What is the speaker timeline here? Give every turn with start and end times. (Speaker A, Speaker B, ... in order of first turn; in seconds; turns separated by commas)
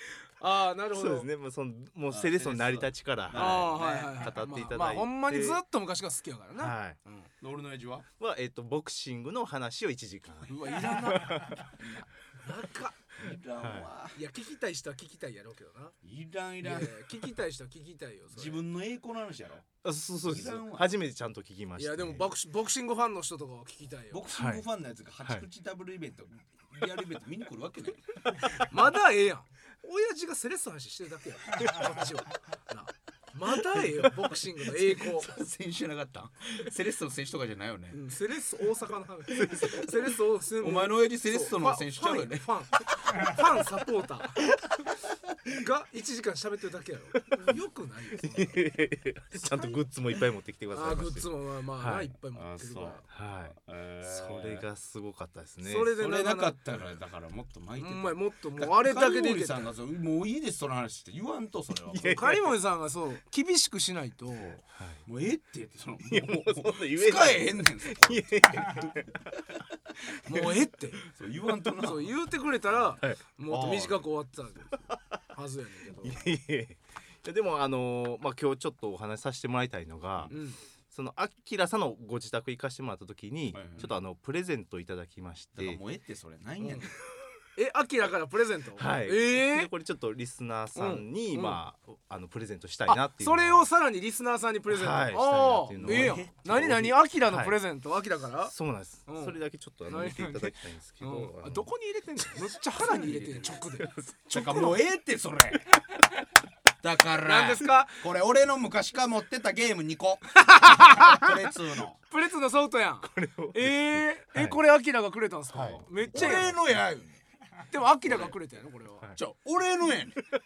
Speaker A: 0.4-1.3, Speaker B: 0.9-5.6, Speaker C: 2.1-4.2, Speaker A: 3.3-7.3, Speaker B: 6.6-7.0, Speaker C: 7.4-8.1, Speaker B: 8.2-11.7, Speaker A: 10.5-11.5, Speaker C: 11.6-12.1, Speaker A: 12.4-13.0, Speaker C: 13.2-14.2, Speaker B: 13.6-13.9, Speaker A: 14.1-15.9, Speaker C: 16.0-17.1, Speaker A: 16.6-18.6, Speaker C: 18.3-19.7, Speaker B: 19.8-22.3, Speaker C: 20.2-20.9, Speaker A: 21.8-24.3, Speaker C: 24.1-28.3, Speaker B: 24.3-24.7, Speaker A: 28.6-35.4, Speaker C: 34.7-38.1, Speaker A: 37.9-44.6, Speaker C: 40.6-42.6, Speaker A: 45.5-48.6, Speaker B: 48.1-52.1, Speaker A: 50.7-53.0, Speaker C: 52.3-53.0, Speaker B: 53.1-55.9, Speaker C: 53.5-54.6, Speaker A: 55.6-56.9, Speaker C: 56.0-62.2, Speaker A: 57.8-59.7, Speaker B: 61.9-62.5, Speaker A: 62.0-64.6, Speaker B: 64.7-65.0, Speaker C: 65.0-68.9, Speaker B: 66.1-69.3, Speaker A: 70.2-71.0, Speaker C: 70.3-72.2, Speaker A: 71.8-76.3, Speaker C: 73.5-74.0, Speaker B: 76.0-80.3, Speaker A: 80.3-80.6, Speaker B: 80.9-85.8, Speaker C: 83.5-83.9, Speaker C: 85.5-86.9, Speaker A: 86.6-86.9, Speaker A: 87.5-89.7, Speaker B: 88.8-93.7, Speaker A: 90.7-91.6, Speaker A: 92.9-98.5, Speaker B: 94.7-97.6, Speaker C: 95.8-96.3, Speaker B: 98.5-101.7, Speaker A: 99.1-104.7, Speaker C: 102.8-103.6, Speaker B: 103.8-104.5, Speaker C: 104.3-105.8, Speaker C: 106.8-112.0, Speaker A: 107.2-108.0, Speaker A: 110.3-111.3, Speaker A: 112.1-116.5, Speaker B: 113.0-114.6, Speaker B: 115.5-116.5, Speaker C: 116.1-117.2, Speaker A: 117.7-119.1, Speaker C: 118.0-118.3, Speaker C: 119.2-120.2